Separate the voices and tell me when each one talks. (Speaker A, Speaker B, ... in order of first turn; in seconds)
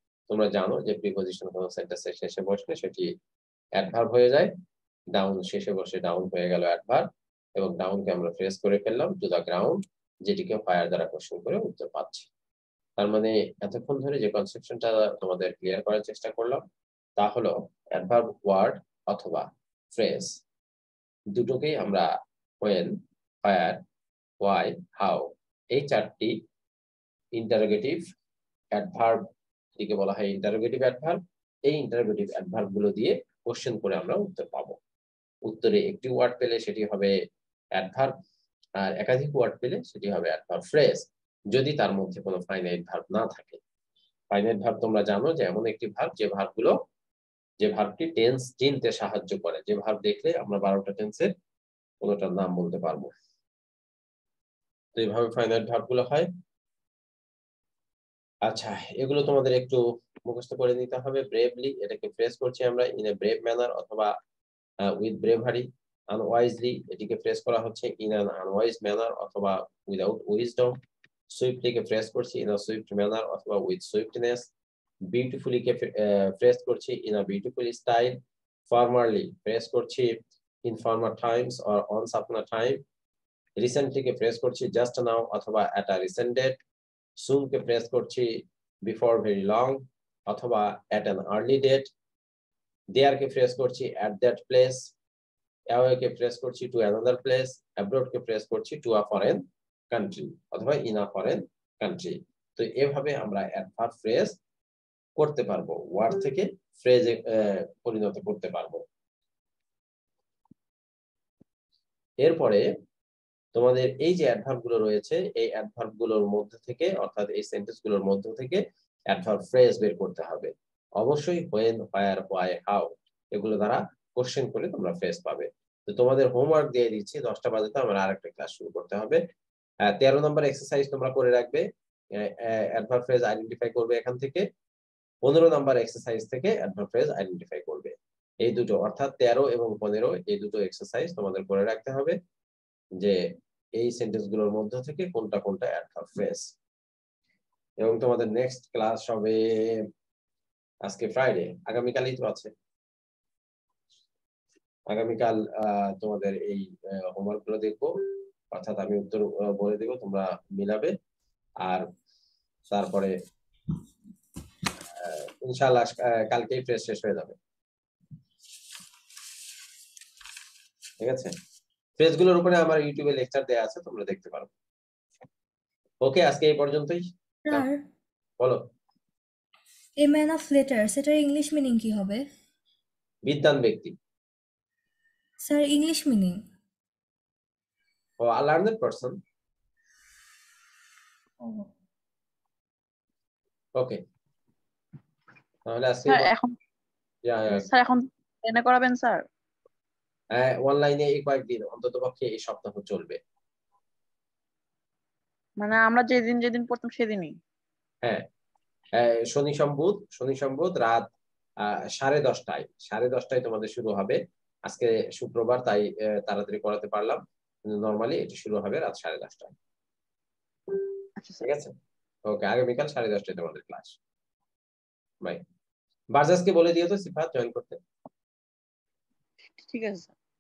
Speaker A: 0.3-3.1, 3.8-4.5, 5.1-12.3, 13.0-16.6, 17.2-20.4, 21.4-22.1, 22.6-23.8, 24.4-26.4, 27.4-28.0, 28.8-29.2, 29.8-34.8, 35.5-37.1, 37.8-38.1, 38.8-43.6, 44.3-46.8, 47.6-51.3, 52.0-53.1, 55.0-56.3, 58.5-64.1, 64.9-70.8, 71.3-74.5, 75.1-78.2, 78.7-82.8, 83.6-86.6, 87.2-91.9, 93.0-94.9, 95.7-104.4, 105.2-108.8, 112.2-112.6, 113.5-129.2, 129.8-131.7, 132.2-134.4, 135.2-142.2, 143.8-146.5, 147.8-149.8, 150.8-152.5, 154.9-157.9, 158.5-160.9, 162.7-163.1, 165.0-167.4, 171.0-171.3, 172.0-174.5, 176.0-177.7, 178.4-178.7, 183.3-183.9, 188.2-189.2, 195.7-196.3, 197.3-197.7, 200.3-203.2, 209.0-211.1, 211.7-219.6, 221.4-221.8, 222.3-224.0, 226.1-227.8
Speaker B: 177.5-177.8, 180.0-182.2, 185.4-186.4
Speaker C: 196.1-196.6, 197.5-199.2, 205.6-207.4, 221.2-221.5, 229.6-230.1